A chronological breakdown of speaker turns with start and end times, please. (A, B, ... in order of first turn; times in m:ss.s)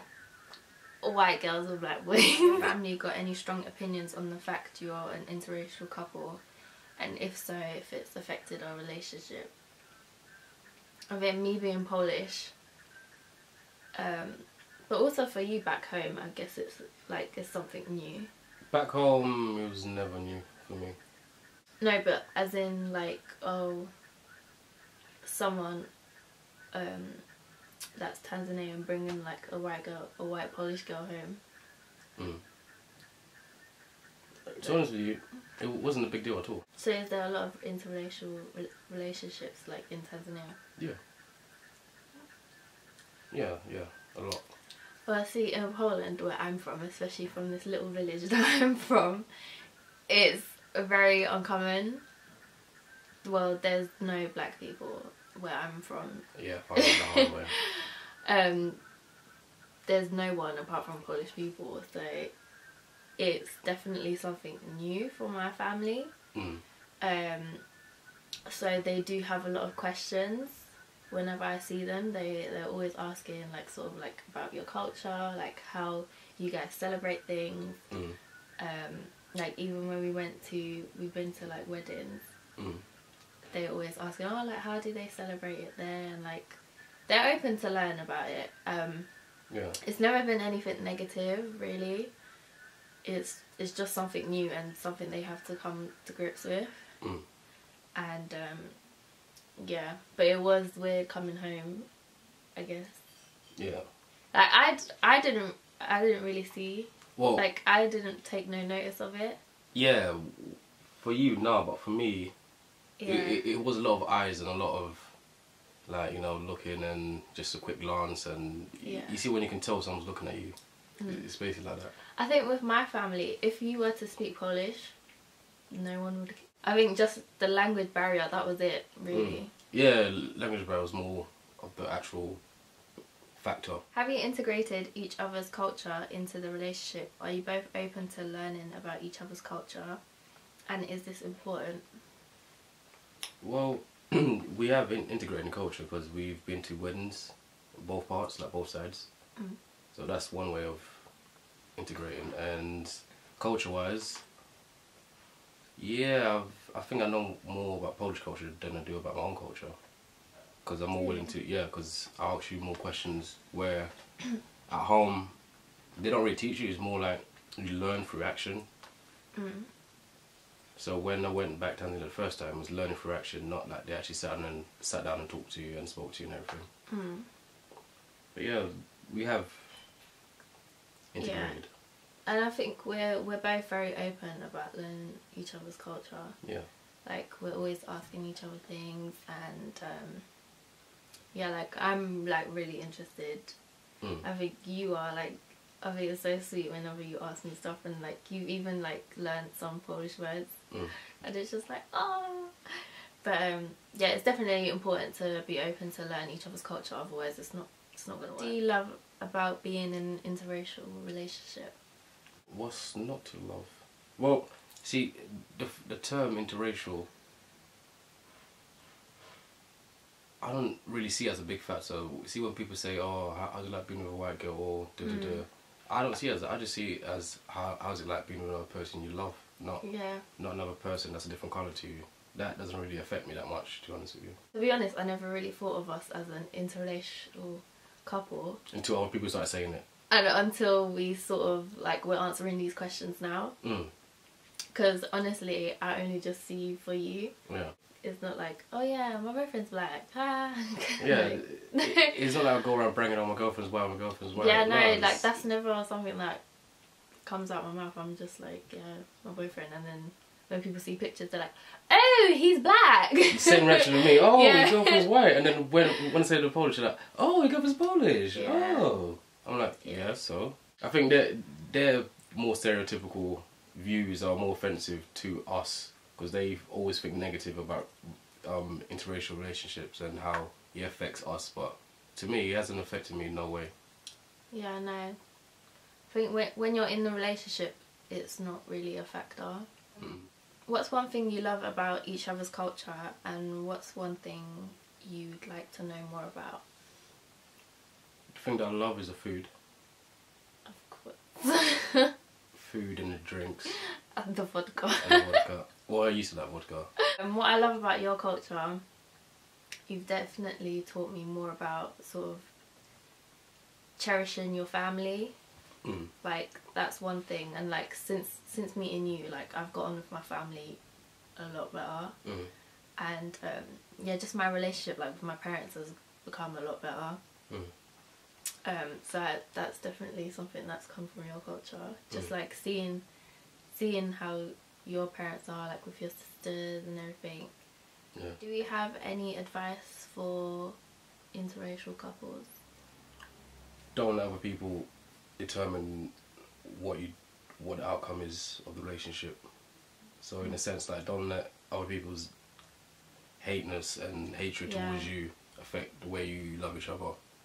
0:01.0-0:06.4 A
0:07.0-0:09.5 A
0:11.1-0:12.5 A
0:13.9-0:18.3 A
0:18.7-0:21.0 B
0:21.8-0:23.9 A
0:25.2-0:25.9 A
0:26.7-0:27.2 A
0:28.0-0:31.4 A
0:32.2-0:32.4 B
0:34.4-0:36.6 B
0:36.8-0:40.6 A
0:43.3-0:44.5 B
0:45.0-0:52.0 A
0:53.2-0:58.8 A
0:56.4-0:57.6 B
0:59.9-1:02.3 A
1:03.2-1:06.1 A
1:06.3-1:06.6 B
1:07.0-1:07.6 A
1:08.5-1:17.9 A
1:17.9-1:18.2 B
1:18.6-1:22.2 A
1:22.6-1:22.8 B
1:23.5-1:29.1 A
1:29.5-1:29.8 B
1:29.7-1:32.1 A
1:33.0-1:37.0 A
1:38.0-1:38.8 A
1:39.6-1:41.9 A
1:42.6-1:43.0 A
1:43.6-1:43.9 B
1:44.3-1:49.4 A
1:47.2-1:47.4 B
1:49.7-1:52.3 B
1:53.0-1:53.4 A
1:53.0-1:55.2 B
1:55.9-2:02.0 B
1:58.8-1:59.2 A
2:02.0-2:05.0 A
2:05.7-2:09.5 A
2:09.1-2:12.4 B
2:13.4-2:13.8 B
2:13.9-2:20.0 A
2:20.7-2:22.0 A
2:23.4-2:29.1 B
2:29.9-2:31.1 B
2:31.8-2:34.2 B
2:35.8-2:39.8 B
2:40.6-2:45.4 B
2:41.0-2:41.3 A
2:46.0-2:48.7 B
2:49.3-2:49.7 A
2:50.8-2:56.7 B
2:56.9-2:57.3 A
2:58.3-2:59.9 B
3:01.1-3:01.7 B
3:01.2-3:01.6 A
3:02.3-3:06.4 A
3:06.4-3:06.7 B
3:07.0-3:10.3 A
3:11.3-3:13.6 A
3:14.2-3:31.8 A
3:32.5-3:37.1 B
3:40.4-3:54.4 B
3:45.0-3:45.4 A
3:49.8-3:50.2 A
3:54.5-3:58.6 A
3:58.7-3:59.8 B
4:00.1-4:03.6 A
4:03.6-4:03.9 B
4:04.7-4:07.4 A
4:07.5-4:07.7 B
4:08.0-4:12.2 A
4:11.0-4:15.4 B
4:14.4-4:16.4 A
4:17.2-4:25.1 A
4:23.3-4:43.7 B
4:28.3-4:28.9 A
4:44.5-4:45.2 A
4:46.1-4:49.7 A
4:50.0-4:50.3 B
4:50.7-4:56.6 A
4:58.3-4:59.5 B
5:00.6-5:02.1 A
5:02.5-5:03.7 B
5:03.7-5:05.4 A
5:05.0-5:07.0 B
5:07.2-5:08.8 A
5:09.9-5:12.5 A
5:14.0-5:15.4 A
5:15.8-5:16.1 B
5:16.2-5:20.8 A
5:21.4-5:22.2 A
5:22.2-5:22.5 B
5:23.0-5:27.2 A
5:28.5-5:33.0 A
5:33.7-5:37.5 A
5:38.4-5:40.8 A
5:41.3-5:42.5 A
5:43.9-5:49.5 B
5:50.2-5:52.3 B
5:53.4-5:57.2 B
5:54.7-5:55.1 A